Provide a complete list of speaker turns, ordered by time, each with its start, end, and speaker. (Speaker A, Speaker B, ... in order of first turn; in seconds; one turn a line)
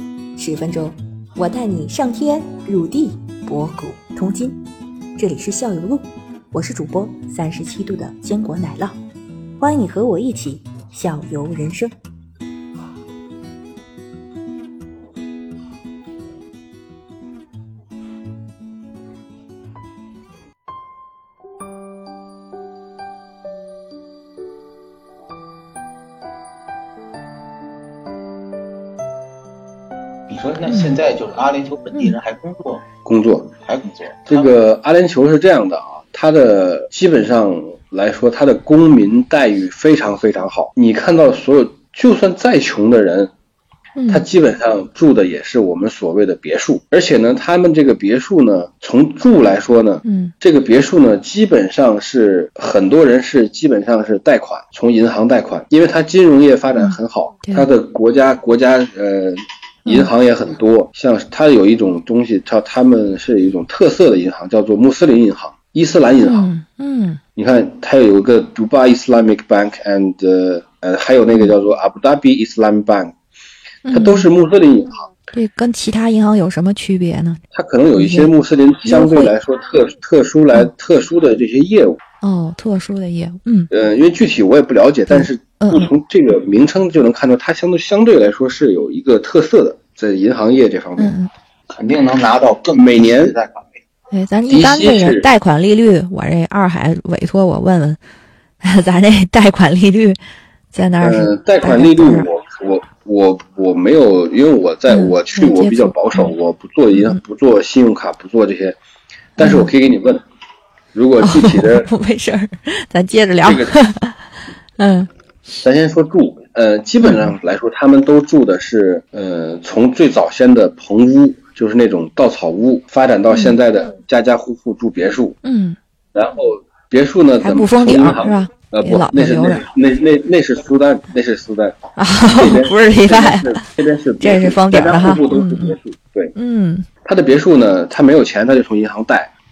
Speaker A: 0.4-4.6
Speaker A: 5.2-9.0
Speaker A: 9.6-11.9
Speaker B: 30.3-32.9
Speaker A: 30.7-31.0
Speaker C: 33.0-33.5
Speaker B: 33.6-34.5
Speaker C: 34.3-43.3
Speaker A: 44.0-44.2
Speaker C: 44.1-66.5
Speaker A: 50.0-50.3
Speaker A: 56.8-57.7
Speaker A: 59.8-60.1
Speaker A: 66.2-67.2
Speaker C: 67.3-73.1
Speaker A: 73.8-74.3
Speaker C: 73.9-75.1
Speaker A: 75.3-77.4
Speaker C: 77.5-82.0
Speaker A: 77.9-78.3
Speaker A: 78.8-79.3
Speaker A: 82.2-83.7
Speaker C: 83.7-91.2
Speaker A: 85.1-85.9
Speaker A: 91.0-91.3
Speaker B: 91.7-93.8
Speaker C: 92.7-93.3
Speaker A: 94.1-98.0
Speaker C: 94.5-95.3
Speaker A: 98.6-100.2
Speaker A: 100.7-102.3
Speaker C: 101.0-108.8
Speaker A: 104.9-106.3
Speaker A: 106.9-107.2
Speaker A: 109.4-109.7
Speaker C: 109.4-110.2
Speaker C: 110.9-111.9
Speaker A: 111.2-114.2
Speaker C: 113.4-113.8
Speaker A: 114.8-115.1
Speaker C: 115.6-125.4
Speaker A: 117.0-117.3
Speaker A: 123.3-123.6
Speaker A: 125.4-125.8
Speaker C: 126.1-131.8
Speaker A: 127.4-129.6
Speaker A: 132.0-133.6
Speaker C: 132.3-136.3
Speaker A: 134.2-135.8
Speaker A: 136.3-136.8
Speaker C: 137.0-139.3